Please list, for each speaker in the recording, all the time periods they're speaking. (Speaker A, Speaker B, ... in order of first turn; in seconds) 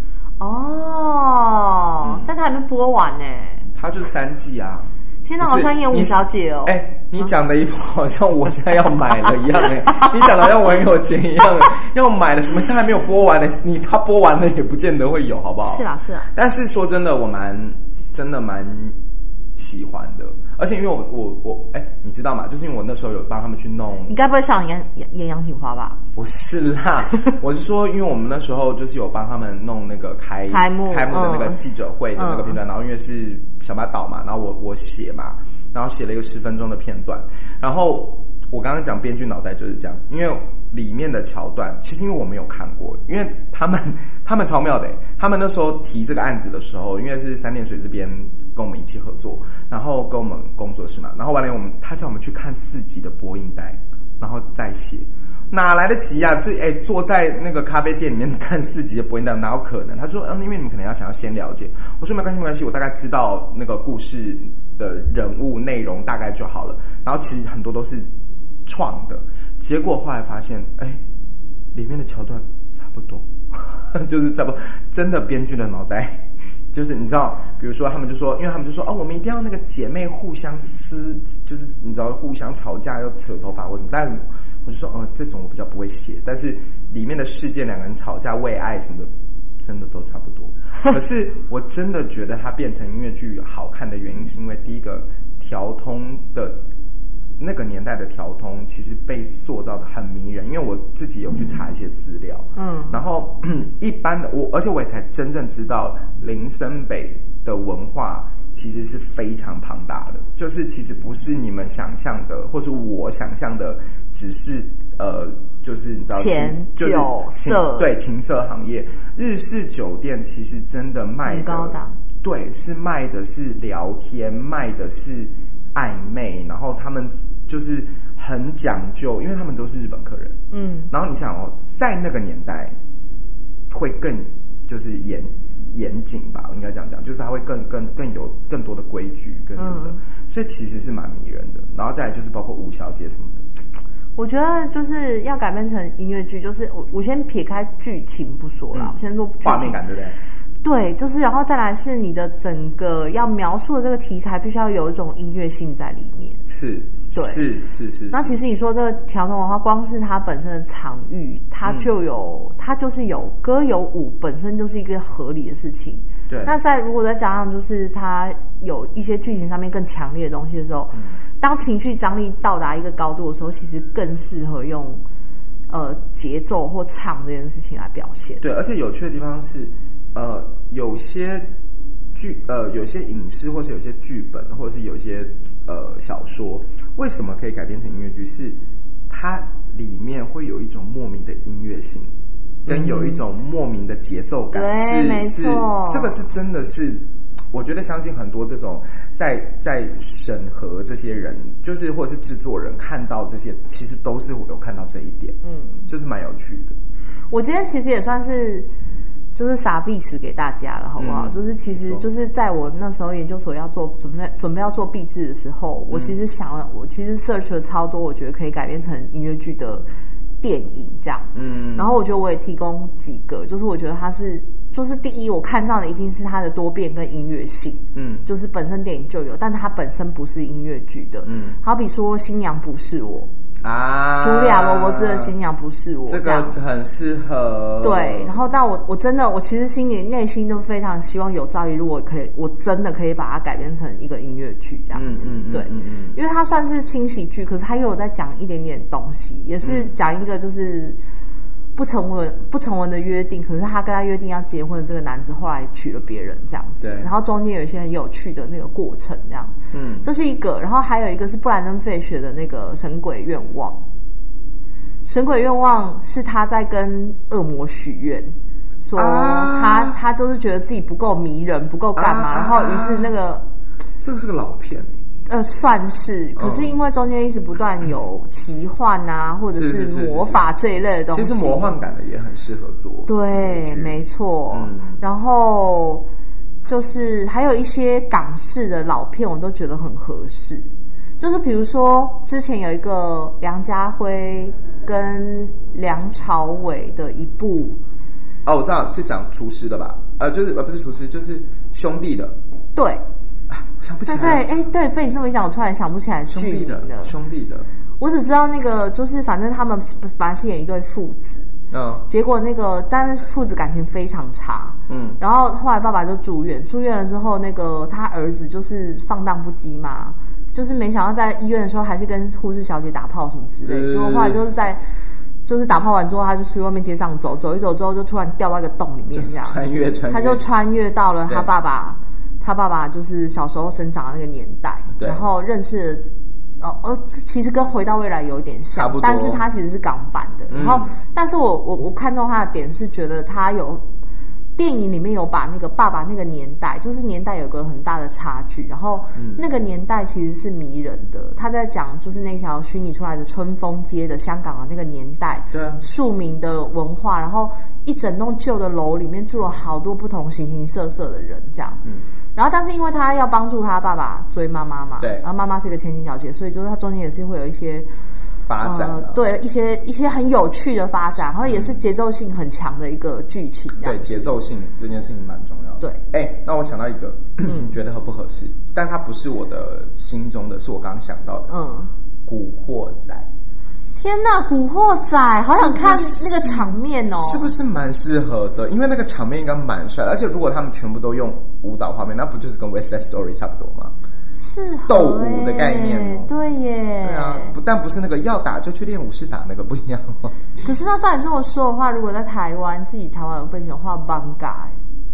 Speaker A: 0.4-3.7, 5.2-7.3, 15.6-16.3, 24.1-26.0, 30.5-31.6, 32.1-32.6, 102.5-103.0, 116.1-117.9, 121.2-122.0, 130.5-130.9, 139.6-140.0, 144.2-149.8, 150.6-156.4, 157.1-157.5, 158.1-175.0, 175.7-178.4, 192.7-193.2, 194.5-196.2, 205.4-205.9, 207.3-208.7, 209.3-219.8, 220.4-233.3, 234.2-236.6, 237.8-251.0, 251.8-263.8, 265.0-273.4, 275.3-281.8, 283.1-286.1, 286.6-290.7, 291.2-297.8, 302.7-303.0, 304.1-307.1, 308.0-311.5, 312.1-324.8, 325.4-336.1, 336.6-343.8, 344.6-361.8, 362.4-367.9, 368.6-374.4, 377.5-377.7, 381.5-381.9, 383.9-387.5, 394.3-397.5, 400.6-404.8
Speaker B: 2.0-2.3, 3.7-18.9, 19.6-24.2, 26.1-68.1, 68.7-71.0, 71.7-89.1, 89.6-96.6, 97.4-130.3, 130.9-132.8, 133.7-143.5, 148.7-150.2, 156.5-158.4, 161.6-161.9, 166.3-166.5, 178.4-181.5, 182.1-188.6, 189.1-192.1, 192.7-206.8, 211.0-212.1, 215.9-216.2, 221.3-222.0, 227.9-228.3, 231.2-231.6, 233.6-235.3, 236.1-238.4, 244.9-246.2, 249.6-249.9, 256.8-257.1, 259.7-260.1, 268.9-269.9, 271.9-273.1, 274.0-275.0, 276.4-276.8, 279.5-280.4, 281.1-284.0, 284.5-285.0, 298.4-302.4, 303.5-304.4, 306.3-307.7, 311.7-312.1, 314.9-315.2, 323.6-324.4, 329.1-330.4, 334.9-335.2, 338.7-339.4, 340.5-341.0, 349.1-349.4, 355.5-355.8, 365.0-365.2, 368.4-369.2, 371.4-371.8, 373.8-381.5, 382.2-383.3, 385.5-393.9, 394.9-396.4, 397.0-400.3